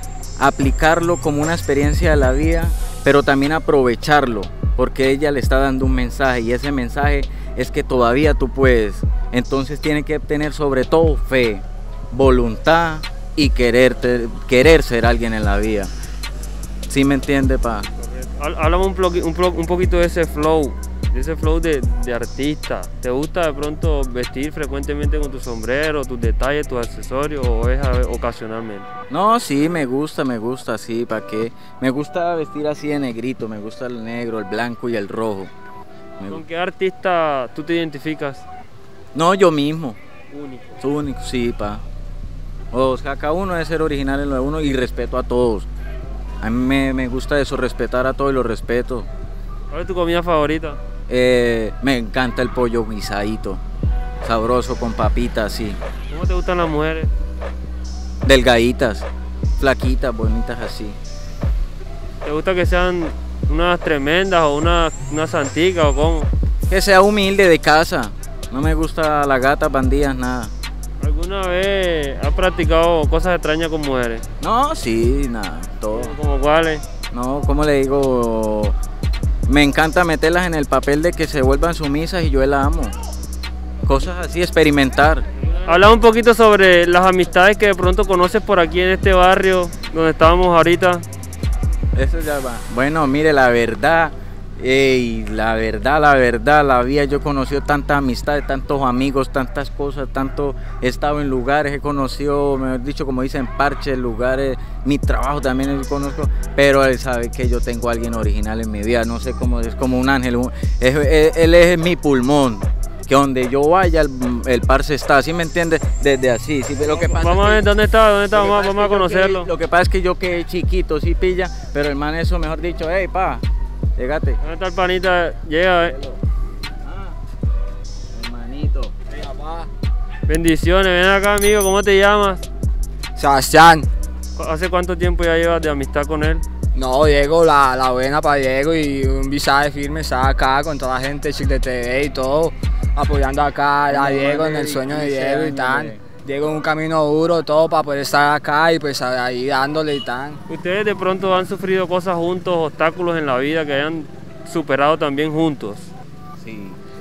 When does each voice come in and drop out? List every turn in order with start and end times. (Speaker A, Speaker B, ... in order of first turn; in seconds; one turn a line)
Speaker A: 0.4-15.9
Speaker A: 16.9-17.9
Speaker B: 18.0-28.9
Speaker A: 29.1-35.5
Speaker B: 36.3-38.5
Speaker A: 39.1-40.0
Speaker B: 40.3-40.8
Speaker A: 40.8-41.8
Speaker A: 42.7-45.7
Speaker A: 46.4-49.1
Speaker B: 49.7-50.8
Speaker A: 51.1-53.6
Speaker A: 54.2-55.8
Speaker B: 56.1-57.1
Speaker A: 58.2-61.0
Speaker B: 62.2-66.3
Speaker A: 66.7-70.5
Speaker B: 71.0-74.2
Speaker A: 74.4-76.2
Speaker B: 75.9-76.8
Speaker A: 77.1-78.8
Speaker A: 79.5-83.0
Speaker A: 83.8-85.3
Speaker B: 85.6-91.0
Speaker A: 92.0-117.6
Speaker B: 116.8-119.5
Speaker A: 118.3-123.4
Speaker A: 124.0-124.4
Speaker B: 124.4-126.0
Speaker A: 125.8-126.2
Speaker A: 126.8-127.2
Speaker A: 128.1-128.9
Speaker C: 129.1-129.7
Speaker B: 130.3-132.5
Speaker C: 133.2-133.9
Speaker B: 134.4-136.4
Speaker C: 136.8-150.4
Speaker A: 143.9-146.0
Speaker B: 150.5-155.9
Speaker A: 156.4-156.8